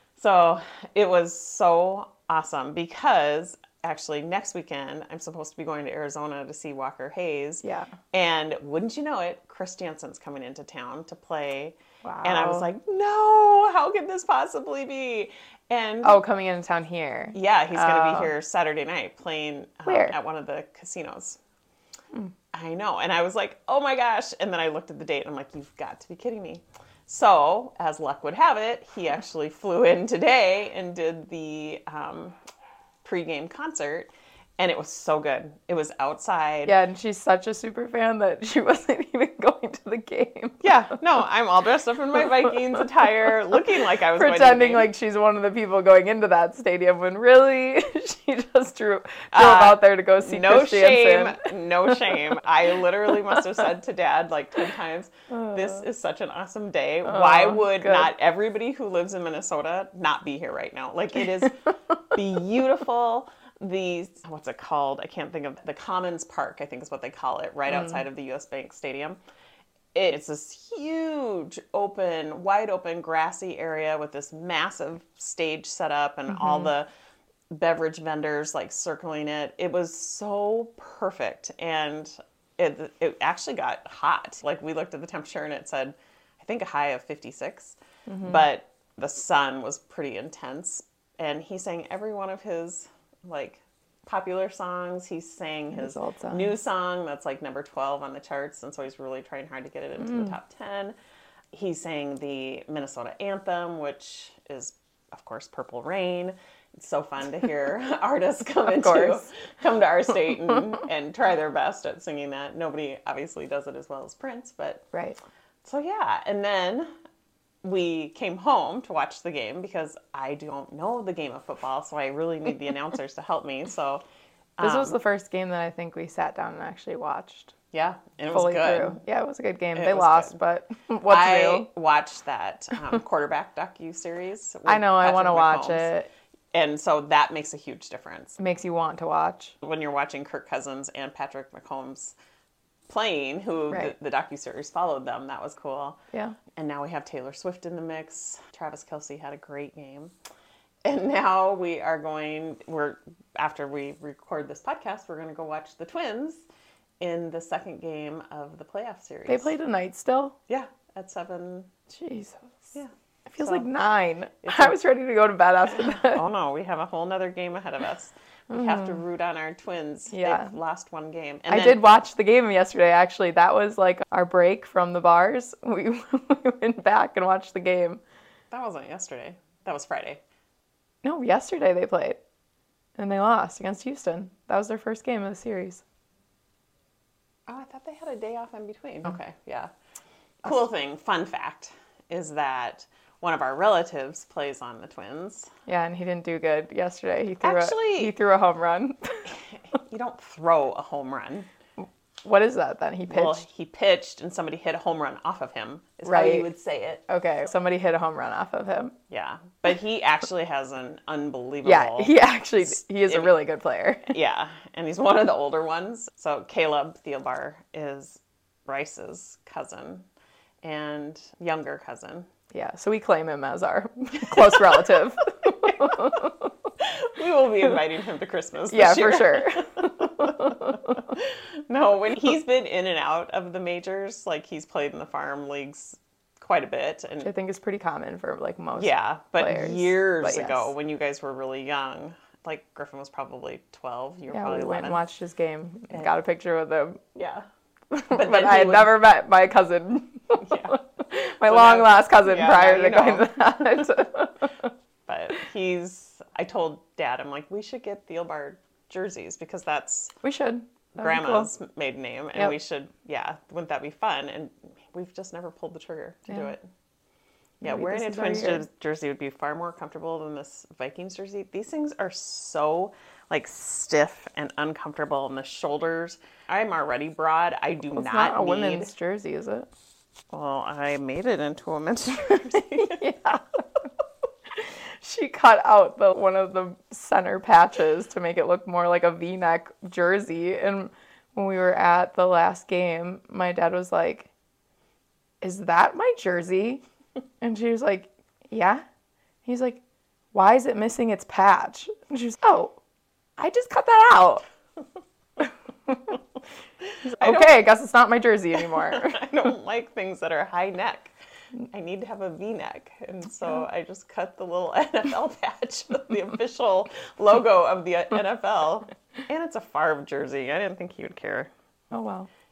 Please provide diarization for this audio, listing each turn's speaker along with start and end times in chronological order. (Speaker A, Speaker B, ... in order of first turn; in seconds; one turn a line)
Speaker A: 0.2-16.2
Speaker B: 7.6-8.0
Speaker B: 12.0-12.7
Speaker B: 16.0-18.3
Speaker A: 17.3-21.4
Speaker B: 19.9-20.1
Speaker A: 22.5-32.4
Speaker A: 33.0-36.7
Speaker B: 36.6-41.0
Speaker A: 40.6-44.9
Speaker B: 42.4-42.8
Speaker B: 44.1-52.2
Speaker A: 49.3-69.2
Speaker B: 53.1-53.6
Speaker B: 55.3-55.8
Speaker B: 57.0-58.1
Speaker A: 69.9-76.9
Speaker B: 76.3-76.7
Speaker A: 77.5-101.0
Speaker B: 88.1-88.5
Speaker B: 95.7-96.5
Speaker B: 100.0-100.3
Speaker A: 101.5-114.8
Speaker B: 108.6-109.2
Speaker B: 114.9-115.2
Speaker A: 115.6-116.9
Speaker A: 117.6-124.0
Speaker A: 124.6-125.0
Speaker B: 124.6-127.5
Speaker A: 127.7-129.0
Speaker B: 128.3-131.7
Speaker A: 129.7-130.4
Speaker A: 131.1-135.9
Speaker B: 134.7-136.1
Speaker A: 136.5-138.4
Speaker B: 138.4-139.6
Speaker A: 139.6-142.2
Speaker A: 142.9-146.0
Speaker A: 146.6-150.1
Speaker A: 150.8-156.4
Speaker A: 157.0-159.5
Speaker B: 159.3-160.4
Speaker A: 160.5-161.7
Speaker B: 161.9-162.7
Speaker A: 162.7-163.7
Speaker B: 163.3-166.2
Speaker A: 164.4-164.8
Speaker A: 165.7-171.8
Speaker B: 168.5-169.0
Speaker B: 170.1-170.5
Speaker B: 171.5-178.0
Speaker A: 178.5-180.2
Speaker B: 181.0-182.2
Speaker B: 183.0-185.8
Speaker A: 187.5-189.7
Speaker A: 190.4-195.5
Speaker B: 195.7-199.8
Speaker A: 197.4-198.1
Speaker A: 199.3-201.5
Speaker B: 201.8-203.4
Speaker A: 203.1-207.0
Speaker B: 206.1-206.5
Speaker B: 207.1-208.9
Speaker A: 209.1-213.3
Speaker B: 211.6-214.2
Speaker A: 214.1-220.1
Speaker A: 220.6-222.3
Speaker B: 222.5-226.5
Speaker A: 224.3-226.2
Speaker A: 226.8-237.3
Speaker B: 228.7-231.0
Speaker B: 237.2-240.7
Speaker A: 238.8-245.0
Speaker B: 244.3-247.1
Speaker A: 247.2-247.4
Speaker B: 247.9-254.7
Speaker A: 248.1-248.9
Speaker A: 250.4-250.8
Speaker A: 251.4-253.3
Speaker A: 255.1-260.1
Speaker B: 260.2-261.5
Speaker A: 261.0-266.7
Speaker A: 267.6-278.9
Speaker B: 267.6-268.6
Speaker B: 277.9-279.7
Speaker A: 280.3-283.0
Speaker B: 282.5-283.6
Speaker B: 284.6-294.3
Speaker B: 295.4-296.8
Speaker B: 297.4-298.8
Speaker B: 299.4-299.8
Speaker B: 300.3-302.8
Speaker B: 303.4-304.4
Speaker B: 305.4-306.2
Speaker A: 306.8-307.6
Speaker B: 307.0-309.2
Speaker A: 308.6-311.1
Speaker A: 311.7-321.5
Speaker B: 321.9-322.3